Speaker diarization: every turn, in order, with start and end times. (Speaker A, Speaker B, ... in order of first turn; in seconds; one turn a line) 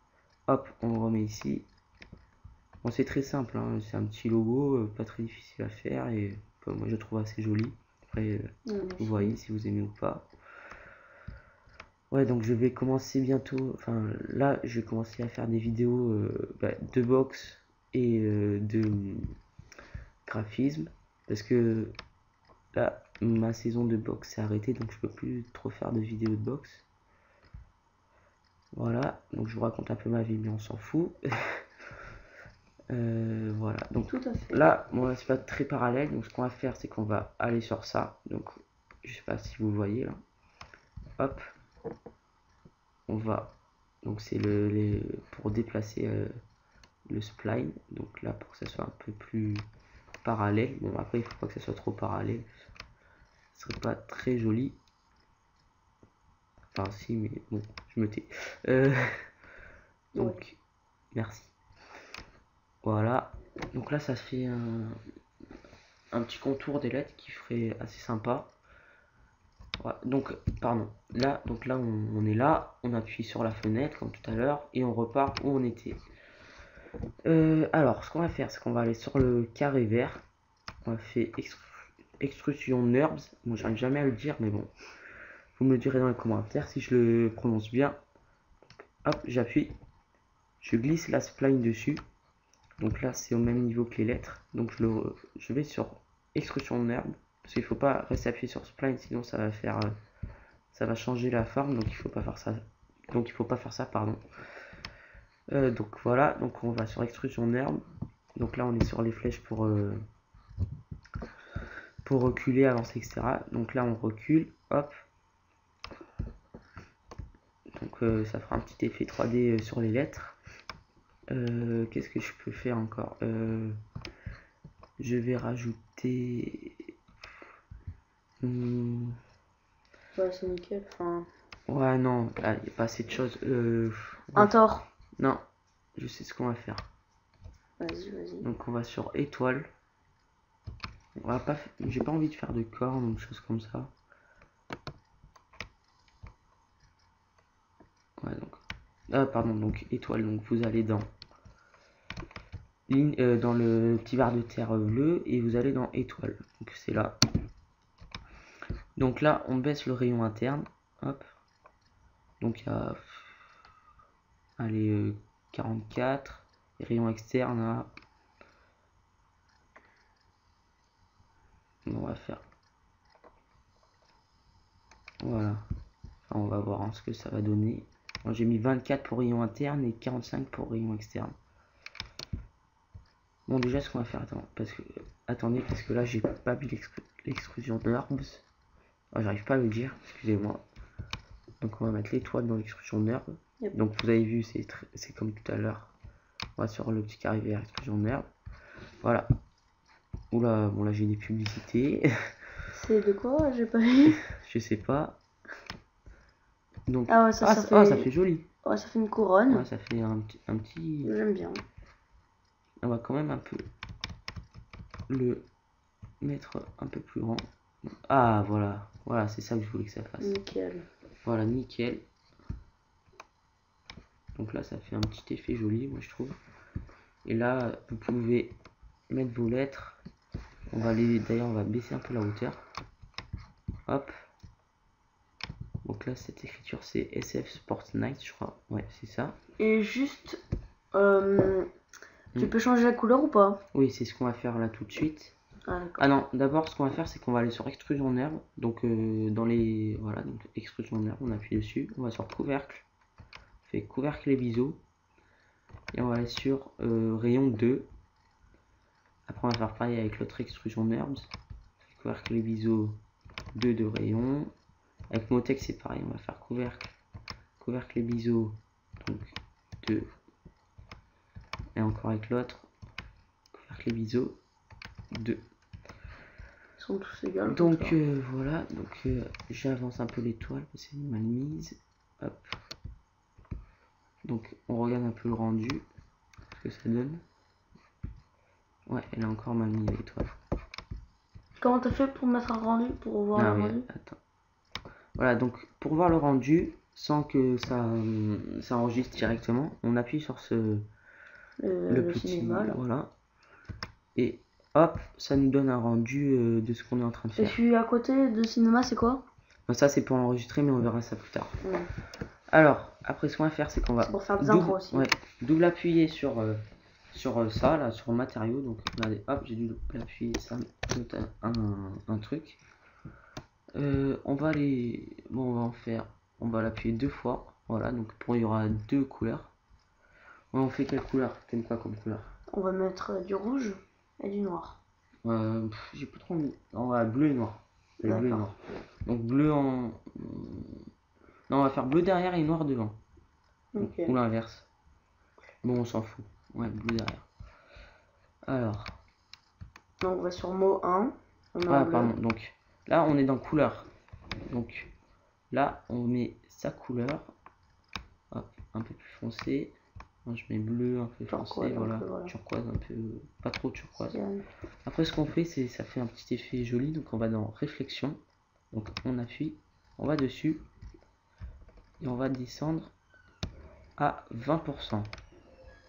Speaker A: 0.5-1.7
Speaker A: 2.8-10.3
Speaker B: 8.7-9.3
Speaker A: 12.1-19.3
Speaker A: 20.2-21.9
Speaker A: 22.7-26.8
Speaker A: 28.7-31.6
Speaker A: 32.9-40.2
Speaker B: 34.1-34.7
Speaker A: 41.2-41.5
Speaker A: 43.1-46.3
Speaker A: 47.1-49.6
Speaker A: 50.2-52.5
Speaker A: 53.5-54.8
Speaker A: 56.7-59.2
Speaker B: 60.1-60.4
Speaker A: 60.1-60.6
Speaker A: 61.1-61.5
Speaker A: 62.8-65.0
Speaker A: 66.1-68.5
Speaker A: 69.8-76.0
Speaker A: 77.2-80.2
Speaker A: 80.8-84.7
Speaker A: 85.5-88.0
Speaker A: 89.0-89.7
Speaker A: 90.6-92.0
Speaker A: 92.8-99.9
Speaker A: 100.7-104.2
Speaker A: 105.5-107.8
Speaker A: 108.3-110.0
Speaker A: 112.0-114.9
Speaker A: 117.7-120.3
Speaker A: 121.3-123.8
Speaker A: 125.0-126.9
Speaker A: 128.4-129.2
Speaker B: 130.2-131.3
Speaker A: 131.7-134.6
Speaker B: 134.3-134.8
Speaker A: 135.9-136.9
Speaker B: 137.8-138.5
Speaker A: 138.4-139.7
Speaker A: 141.2-143.9
Speaker A: 148.2-151.1
Speaker A: 152.9-157.2
Speaker A: 158.9-161.2
Speaker A: 162.4-163.3
Speaker A: 164.6-167.9
Speaker A: 171.8-172.4
Speaker A: 175.2-175.6
Speaker A: 176.3-181.3
Speaker A: 183.5-188.4
Speaker A: 189.1-190.6
Speaker A: 191.6-195.9
Speaker A: 196.6-198.2
Speaker A: 200.3-202.1
Speaker B: 202.7-204.2
Speaker A: 204.1-205.2
Speaker A: 206.9-208.5
Speaker B: 207.1-208.1
Speaker B: 208.6-209.7
Speaker A: 209.5-211.1
Speaker B: 211.0-211.6
Speaker A: 212.8-213.7
Speaker A: 215.1-215.4
Speaker A: 216.2-220.3
Speaker B: 220.2-220.8
Speaker A: 221.2-222.0
Speaker A: 224.3-226.3
Speaker A: 227.2-228.6
Speaker A: 229.1-230.0
Speaker A: 230.7-232.6
Speaker A: 233.8-234.1
Speaker A: 235.8-239.4
Speaker B: 239.6-240.4
Speaker B: 240.9-241.7
Speaker B: 242.3-243.6
Speaker A: 243.7-245.3
Speaker B: 245.7-246.1
Speaker A: 246.0-252.8
Speaker A: 253.6-254.8
Speaker A: 255.9-257.9
Speaker A: 259.2-263.0
Speaker A: 263.5-264.5
Speaker A: 265.1-266.9
Speaker A: 267.6-270.1
Speaker A: 271.8-272.7
Speaker A: 273.5-274.4
Speaker A: 275.1-275.4
Speaker B: 276.8-277.9
Speaker A: 277.5-282.5
Speaker A: 284.2-285.8
Speaker A: 286.6-287.2
Speaker A: 288.9-290.4
Speaker B: 291.6-293.8
Speaker A: 293.3-294.2
Speaker A: 295.1-300.9
Speaker B: 301.6-302.8
Speaker A: 301.9-303.1
Speaker A: 304.1-307.6
Speaker B: 307.4-309.2
Speaker A: 309.7-311.6
Speaker B: 311.6-311.9
Speaker A: 312.5-316.6
Speaker B: 314.0-315.1
Speaker A: 317.1-322.6
Speaker A: 323.7-329.5
Speaker A: 330.5-332.3
Speaker B: 332.5-334.8
Speaker A: 335.2-340.8
Speaker B: 338.0-338.4
Speaker A: 341.5-343.0
Speaker B: 343.7-344.1
Speaker A: 343.8-344.7
Speaker A: 345.6-347.3
Speaker A: 348.5-349.0
Speaker B: 350.0-352.1
Speaker A: 351.7-353.9
Speaker A: 354.5-354.9
Speaker A: 355.5-357.3
Speaker A: 358.3-359.7
Speaker A: 360.2-364.2
Speaker B: 361.3-362.3
Speaker B: 364.1-364.4
Speaker A: 364.8-368.2
Speaker A: 368.7-370.6
Speaker A: 372.0-372.9
Speaker A: 374.0-375.1